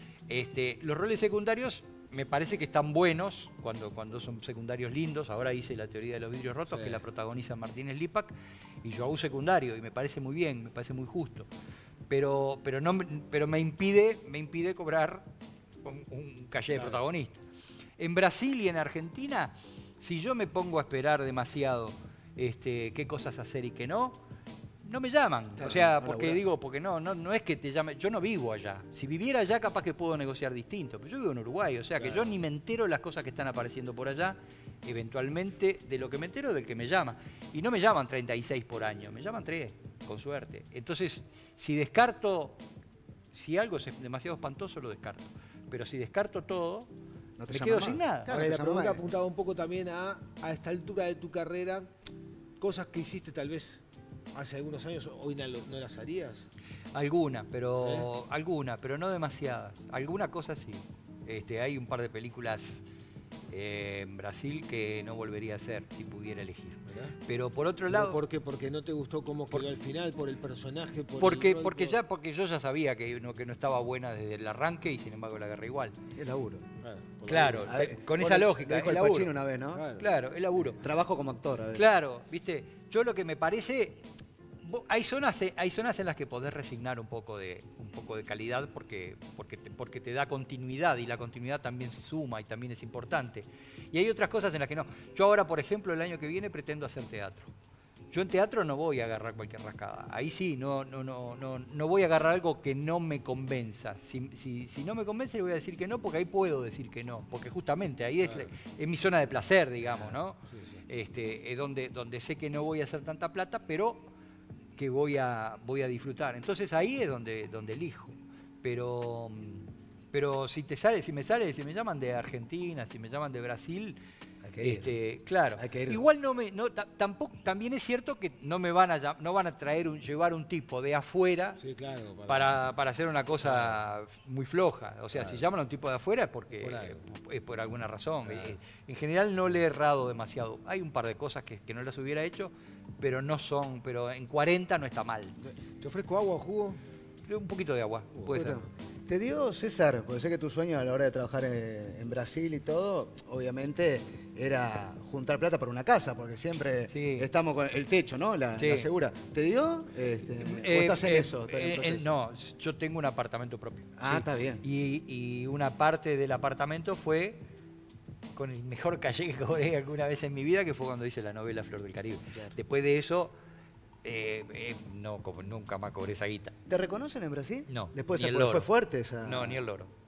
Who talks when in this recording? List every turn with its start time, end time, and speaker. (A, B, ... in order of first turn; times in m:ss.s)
0:00.3-0:11.5 A
0:06.7-0:07.0 B
0:12.1-0:15.2 A
0:15.8-0:17.4 A
0:16.7-0:17.0 B
0:18.0-0:24.2 A
0:24.8-0:42.6 A
0:25.6-0:26.4 C
0:43.3-0:46.9 A
0:47.4-0:49.0 C
0:47.5-0:48.3 A
0:48.3-0:51.9 B
0:52.6-0:53.8 B
0:54.4-0:56.5 B
0:56.9-1:02.8 A
0:57.8-0:58.1 B
1:03.5-1:08.2 A
1:06.9-1:07.2 B
1:07.9-1:12.0 B
1:11.2-1:16.0 A
1:16.2-1:16.6 C
1:16.8-1:17.7 B
1:17.3-1:19.3 A
1:17.6-1:19.8 C
1:19.7-1:20.1 B
1:20.0-1:20.8 A
1:20.6-1:21.8 C
1:21.7-1:24.0 A
1:24.6-1:37.5 A
1:38.1-1:54.1 A
1:48.2-1:48.5 B
1:49.8-1:50.8 B
1:54.8-2:04.0 A
2:04.4-2:05.0 C
2:04.6-2:11.6 A
2:05.6-2:06.0 C
2:11.6-2:12.6 B
2:12.3-2:25.4 A
2:13.4-2:13.8 B
2:15.1-2:15.4 B
2:16.6-2:17.0 B
2:18.2-2:18.6 B
2:25.8-2:26.8 B
2:27.3-2:28.6 A
2:28.2-2:28.6 B
2:28.3-2:42.1 C
2:36.9-2:37.3 A
2:38.6-2:38.9 A
2:40.4-2:47.4 A
2:44.0-2:44.6 C
2:48.4-2:53.3 A
2:54.0-2:56.6 A
2:56.7-2:59.6 C
2:57.7-2:58.7 A
2:59.2-2:59.9 A